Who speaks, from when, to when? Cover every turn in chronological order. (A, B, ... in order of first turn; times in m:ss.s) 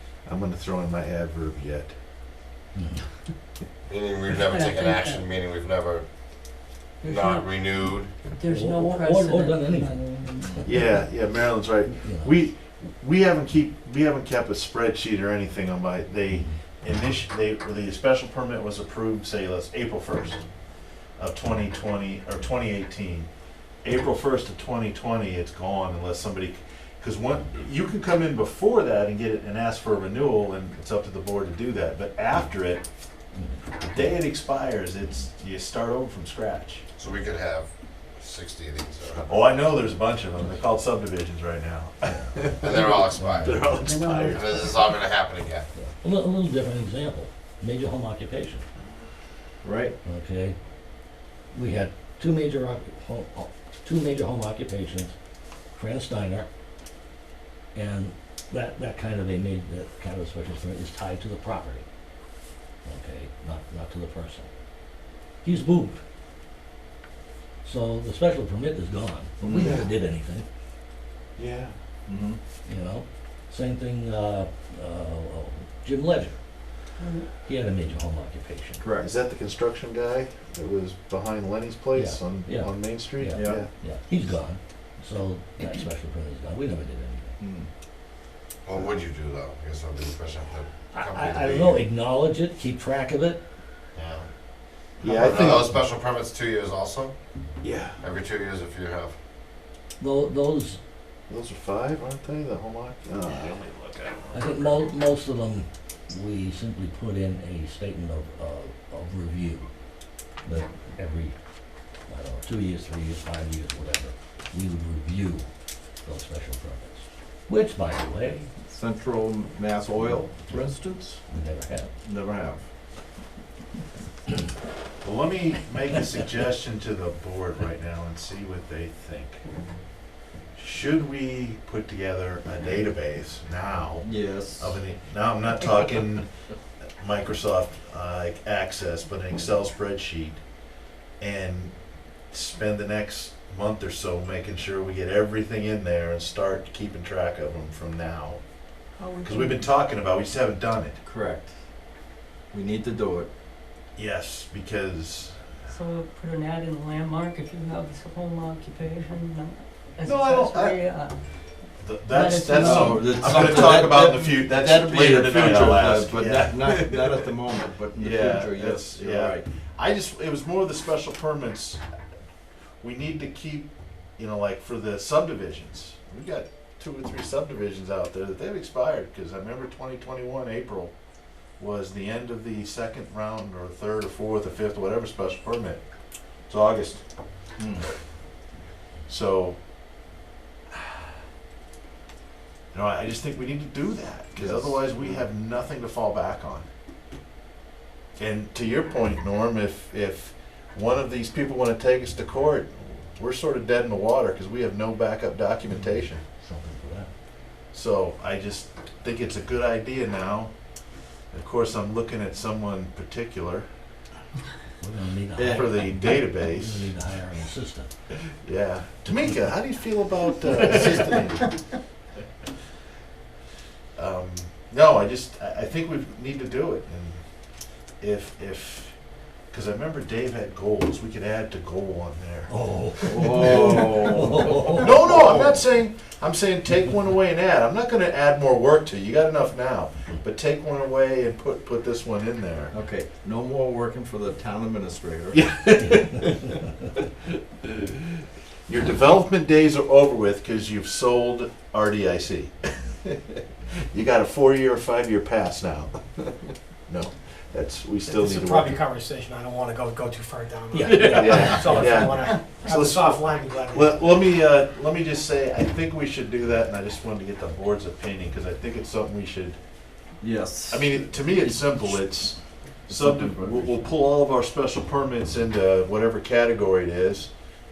0:00.2-0:01.9 A
0:02.8-0:03.0 B
0:03.9-0:08.1 C
0:04.3-0:05.2 D
0:07.0-0:07.5 D
0:08.3-0:10.6 D
0:08.4-0:10.8 B
0:10.6-0:20.4 A
0:11.9-0:12.4 B
0:16.3-0:16.6 B
0:21.2-0:23.3 A
0:23.8-0:32.8 A
0:33.3-0:34.2 B
0:33.9-0:36.8 A
0:37.0-0:39.4 C
0:39.2-0:44.7 A
0:42.1-0:42.4 B
0:42.6-0:43.6 C
0:43.2-0:43.8 B
0:43.7-0:44.8 D
0:44.3-0:45.7 C
0:45.8-0:48.7 B
0:49.6-0:50.0 E
0:50.0-0:50.6 B
0:51.5-0:55.1 B
0:55.7-0:56.5 B
0:57.8-1:01.8 B
1:02.8-1:04.5 B
1:05.4-1:06.0 B
1:07.6-1:10.4 B
1:09.4-1:09.8 E
1:11.4-1:11.8 A
1:12.1-1:12.4 E
1:12.7-1:16.4 B
1:17.0-1:17.4 D
1:17.4-1:18.8 B
1:18.8-1:19.1 E
1:19.0-1:23.7 A
1:21.9-1:27.4 B
1:23.3-1:23.6 E
1:27.4-1:27.7 E
1:28.6-1:31.9 C
1:30.9-1:33.4 B
1:34.0-1:34.3 C
1:35.0-1:35.8 A
1:35.0-1:37.1 C
1:37.6-1:38.0 A
1:38.0-1:39.2 C
1:40.0-1:40.8 B
1:41.3-1:44.8 A
1:44.3-1:49.7 B
1:50.4-1:51.4 B
1:52.1-1:55.5 B
1:56.0-1:58.5 B
1:58.7-2:01.2 E
2:00.5-2:00.8 B
2:01.3-2:01.9 B
2:02.0-2:02.6 E
2:05.0-2:09.4 A
2:10.6-2:16.3 A
2:14.0-2:14.8 E
2:17.0-2:20.4 A
2:21.2-2:21.7 A
2:22.3-2:28.4 A
2:29.2-2:31.0 A
2:31.0-2:31.5 E
2:32.5-2:33.3 E
2:34.0-2:35.4 A
2:35.7-2:41.2 D
2:40.0-2:40.8 A
2:41.8-2:46.7 A
2:41.9-2:43.8 D
2:42.6-2:49.5 E
2:48.0-2:51.8 A
2:52.8-3:00.9 A
3:01.6-3:05.8 A
3:06.5-3:07.0 A
3:07.6-3:07.8 E
3:09.1-3:09.6 A
3:10.7-3:11.0 A
3:12.7-3:16.7 A
3:14.4-3:15.2 E
3:18.2-3:26.2 A
3:26.4-3:27.1 B
3:27.7-3:30.5 A
3:31.3-3:33.7 A
3:34.8-3:37.9 B
3:35.4-3:36.0 E
3:35.5-3:36.9 A
3:38.4-3:41.5 A
3:44.0-3:47.2 A
3:48.0-3:49.0 A
3:49.5-3:54.1 A
3:52.5-3:54.8 B
3:53.1-3:55.6 E
3:54.7-4:02.7 A
4:02.7-4:05.5 E
4:05.3-4:06.4 A
4:08.7-4:12.5 A
4:13.9-4:16.0 A
4:16.9-4:18.8 A
4:18.0-4:24.0 F
4:20.7-4:21.9 B
4:21.0-4:29.6 A
4:30.2-4:31.8 E
4:30.7-4:37.3 A
4:32.9-4:33.8 E